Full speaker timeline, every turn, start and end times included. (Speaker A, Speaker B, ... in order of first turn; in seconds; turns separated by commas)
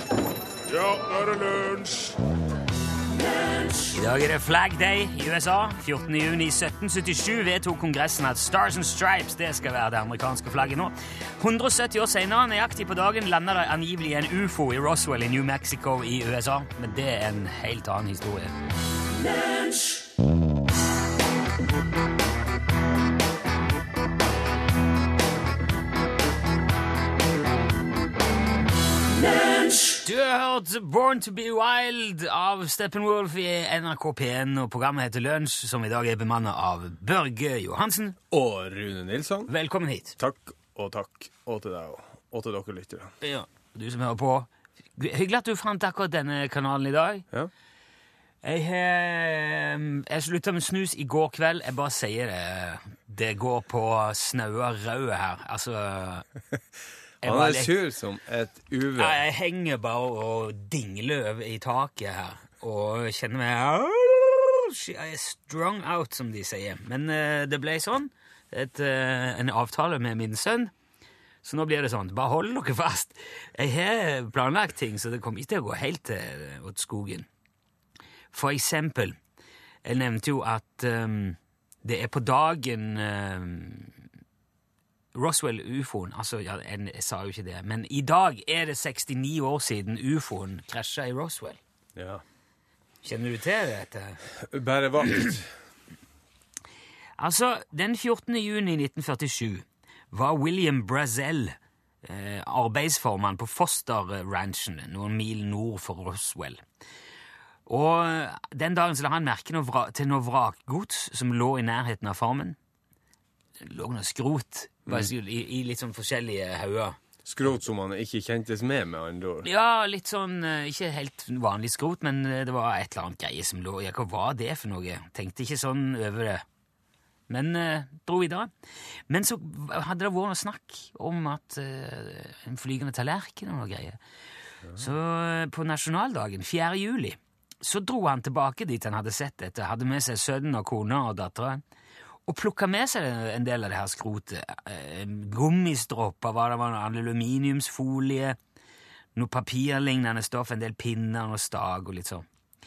Speaker A: 3.9-18.6, Speaker A: 30.0-38.2, Speaker B: 38.3-39.5, Speaker A: 39.5-40.1, Speaker B: 40.2-43.1, Speaker A: 43.2-47.2, Speaker A: 48.4-56.3, Speaker B: 57.2-59.2, Speaker A: 57.2-57.7, Speaker A: 59.0-70.7, Speaker A: 71.4-77.3, Speaker A: 78.3-79.2, Speaker A: 79.8-84.0, Speaker A: 85.2-91.6, Speaker B: 92.0-92.2, Speaker A: 93.0-94.2, Speaker B: 94.5-95.5, Speaker A: 97.2-106.6, Speaker A: 107.7-112.6, Speaker A: 113.6-117.0, Speaker B: 114.9-115.1, Speaker B: 117.2-119.5, Speaker A: 119.4-126.4, Speaker A: 127.3-128.5, Speaker A: 129.1-134.0, Speaker A: 134.8-141.6, Speaker A: 142.3-148.4, Speaker A: 149.2-152.2